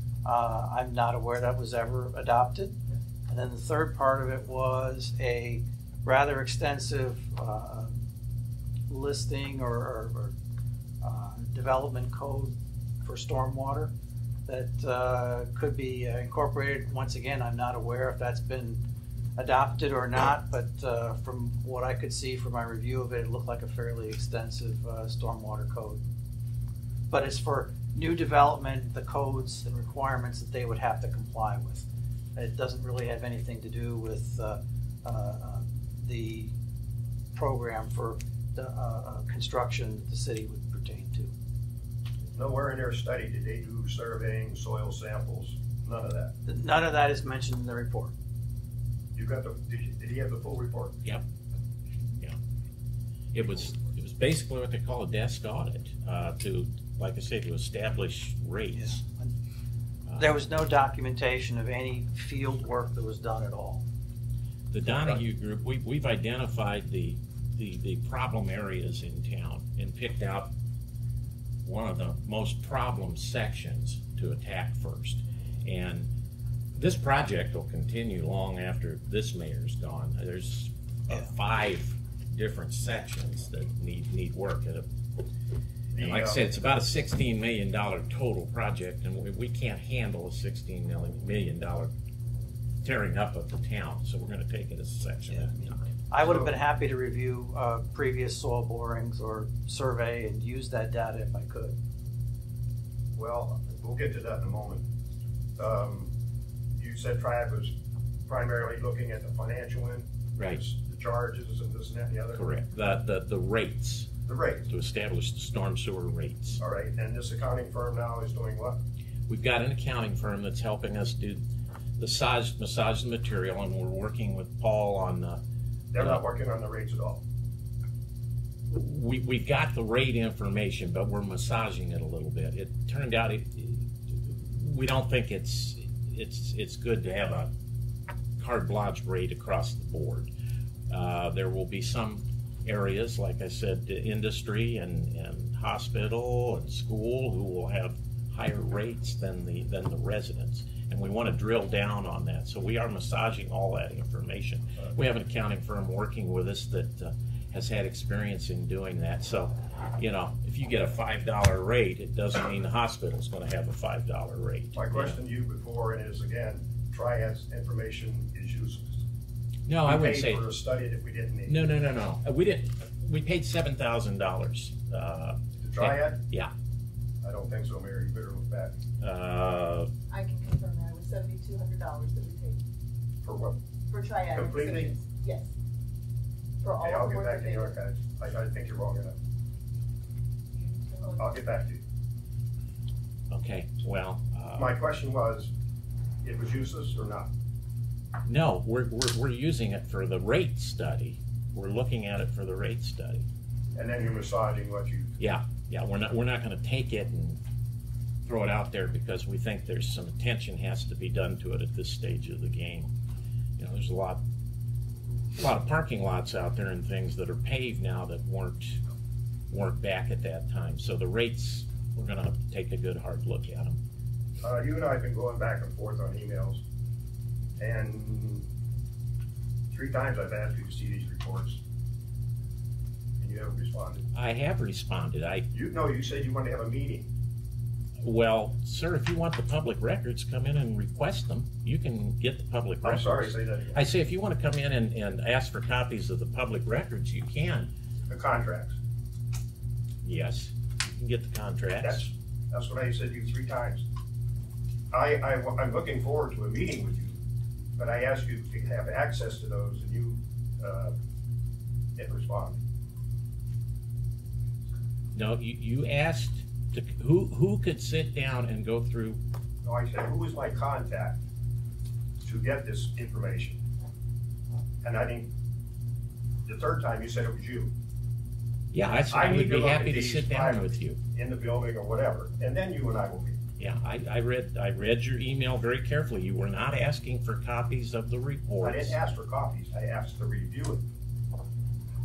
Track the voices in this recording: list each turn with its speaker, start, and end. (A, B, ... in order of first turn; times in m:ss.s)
0:00.2-0:08.0 A
0:08.9-0:10.4 A
0:11.0-0:13.9 A
0:14.5-0:18.8 A
0:19.4-0:26.0 A
0:27.1-0:36.5 A
0:37.3-0:41.3 A
0:42.4-0:46.3 B
0:46.5-0:48.1 A
0:49.2-0:51.0 B
0:53.3-0:59.0 C
0:58.8-0:59.3 A
1:00.1-1:00.4 C
1:00.2-1:03.9 A
1:04.7-1:10.5 C
1:11.6-1:16.1 C
1:16.7-1:24.9 C
1:25.9-1:26.4 B
1:26.0-1:31.9 C
1:32.8-1:36.0 C
1:35.3-1:41.8 A
1:36.2-1:36.5 B
1:43.2-1:44.9 B
1:45.6-1:46.1 B
1:46.8-1:47.7 B
1:48.3-1:52.4 B
1:50.4-1:50.6 C
1:52.3-1:54.1 C
1:54.3-1:54.7 B
1:54.7-1:56.6 C
1:56.6-1:58.8 B
1:59.3-2:01.4 C
2:02.0-2:05.4 C
2:05.9-2:07.2 B
2:06.0-2:06.2 C
2:08.7-2:17.5 C
2:18.4-2:20.3 C
2:20.9-2:45.2 C
2:44.7-2:49.0 B
2:49.7-2:50.5 C
2:49.8-2:51.6 B
2:51.5-2:56.5 C
2:55.6-2:56.2 B
2:57.2-2:58.8 B
2:59.0-2:59.9 C
3:00.1-3:02.6 D
3:03.2-3:03.6 B
3:03.9-3:05.5 D
3:04.4-3:05.0 B
3:06.6-3:07.8 D
3:06.8-3:09.2 B
3:10.6-3:11.3 D
3:11.2-3:11.8 B
3:13.3-3:14.8 C
3:14.6-3:15.5 B
3:16.2-3:17.3 B
3:18.2-3:23.3 C
3:23.8-3:25.1 B
3:25.2-3:27.4 C
3:28.2-3:32.9 C
3:33.6-3:34.2 C
3:35.4-3:38.8 C
3:39.5-3:43.8 C
3:44.4-3:46.6 B
3:47.6-3:48.5 B
3:49.7-3:51.6 B
3:53.2-3:54.0 B
3:54.1-3:55.5 C
3:55.5-3:57.1 B
3:58.0-4:07.7 C
4:02.8-4:03.9 B
4:08.1-4:08.8 B
4:10.0-4:12.1 C
4:11.8-4:13.8 B
4:14.9-4:17.2 B
4:17.8-4:20.9 B
4:22.0-4:22.6 B
4:25.1-4:29.2 C
4:29.6-4:31.2 B
4:32.2-4:33.6 B
4:34.8-4:35.3 B
4:36.5-4:37.7 B
4:38.7-4:41.0 C
4:39.1-4:43.4 B
4:43.6-4:48.9 C
4:48.6-4:50.8 B